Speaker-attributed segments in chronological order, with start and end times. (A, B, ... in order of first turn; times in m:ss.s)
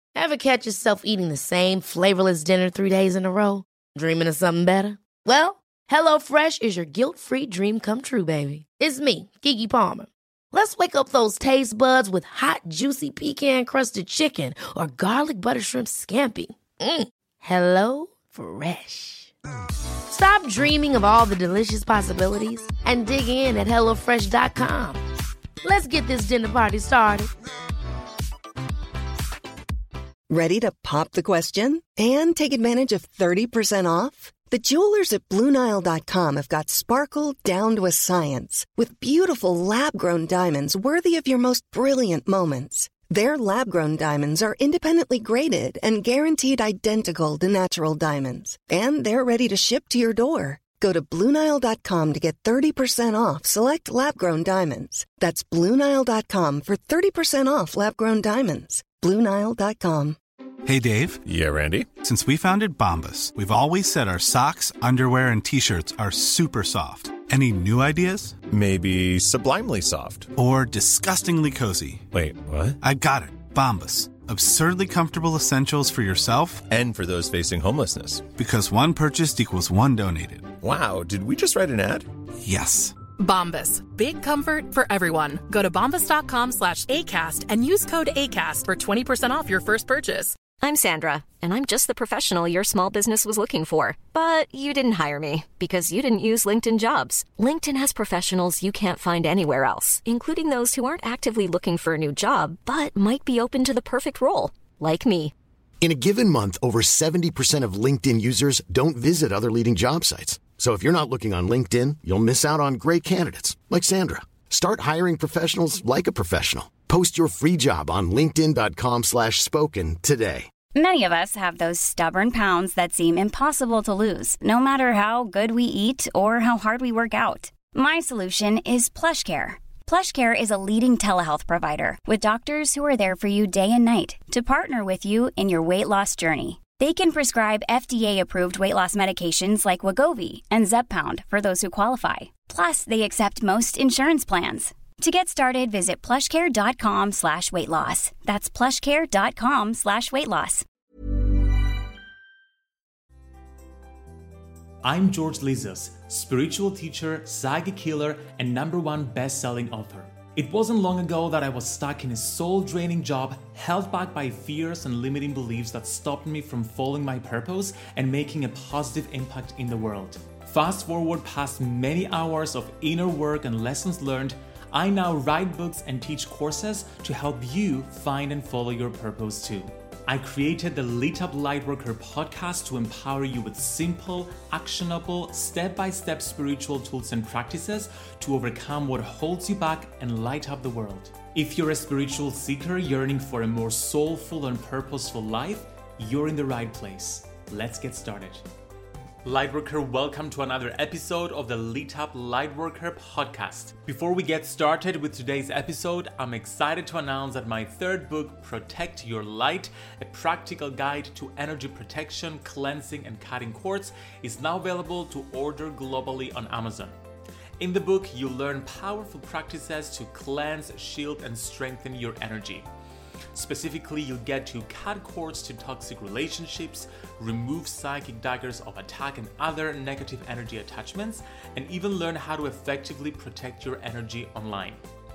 0:00.2-0:19.3 A
0:20.1-0:25.0 A
0:25.6-0:27.3 A
0:30.3-1:00.2 B
1:00.6-1:01.2 C
1:01.2-1:01.9 D
1:02.0-1:08.4 C
1:08.5-1:10.3 D
1:10.4-1:12.1 C
1:12.1-1:12.8 D
1:12.8-1:16.7 C
1:16.7-1:18.3 D
1:18.3-1:20.5 C
1:20.6-1:22.1 D
1:22.4-1:23.0 C
1:23.2-1:30.4 E
1:30.6-1:45.3 F
1:45.8-2:00.5 G
2:00.8-2:30.6 H
2:34.8-3:18.4 I
3:19.2-3:37.0 I
3:37.6-3:42.7 I
3:43.3-3:54.8 I